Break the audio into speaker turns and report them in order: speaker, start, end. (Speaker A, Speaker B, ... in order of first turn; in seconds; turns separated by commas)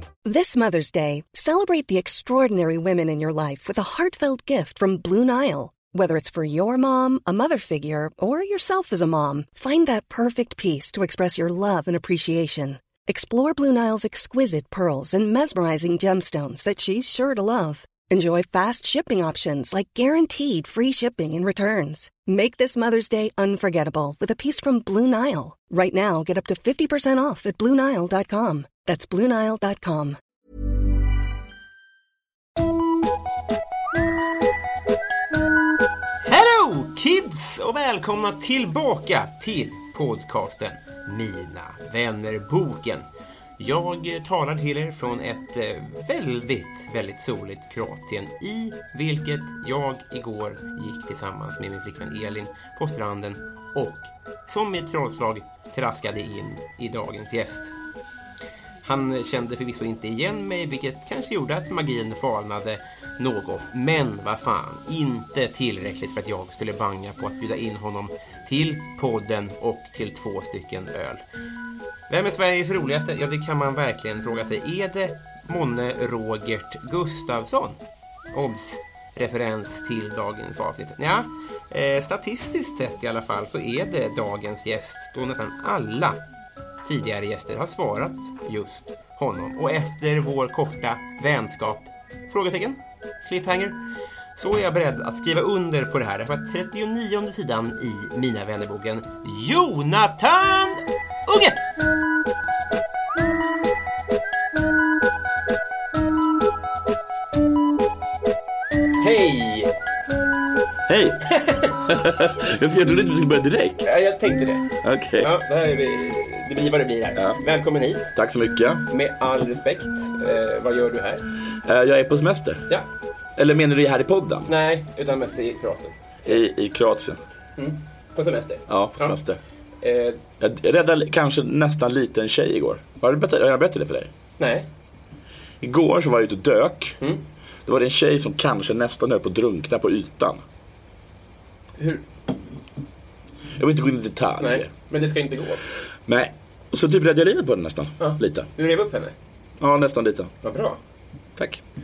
Speaker A: 0.2-30.2, Speaker B: 36.2-43.0, Speaker B: 43.6-57.7, Speaker B: 58.9-71.2, Speaker B: 72.1-77.8, Speaker B: 78.3-86.2, Speaker B: 86.8-93.8, Speaker B: 94.4-101.6, Speaker B: 109.0-109.7, Speaker C: 110.9-113.9, Speaker B: 111.3-111.7, Speaker B: 113.8-114.7, Speaker C: 114.8-115.3, Speaker B: 115.2-118.1, Speaker C: 118.2-118.9, Speaker B: 118.9-121.3, Speaker C: 121.6-122.7, Speaker C: 123.4-124.5, Speaker B: 124.5-126.4, Speaker C: 126.2-127.2, Speaker B: 127.6-129.2, Speaker C: 128.7-129.4, Speaker B: 129.8-130.2, Speaker C: 130.4-134.1, Speaker B: 134.4-134.7, Speaker C: 135.6-137.0, Speaker C: 137.7-140.4, Speaker B: 141.8-142.1, Speaker C: 143.6-144.7, Speaker B: 144.4-145.6, Speaker C: 146.1-148.5, Speaker B: 148.0-149.2, Speaker C: 149.6-150.3, Speaker B: 150.4-150.8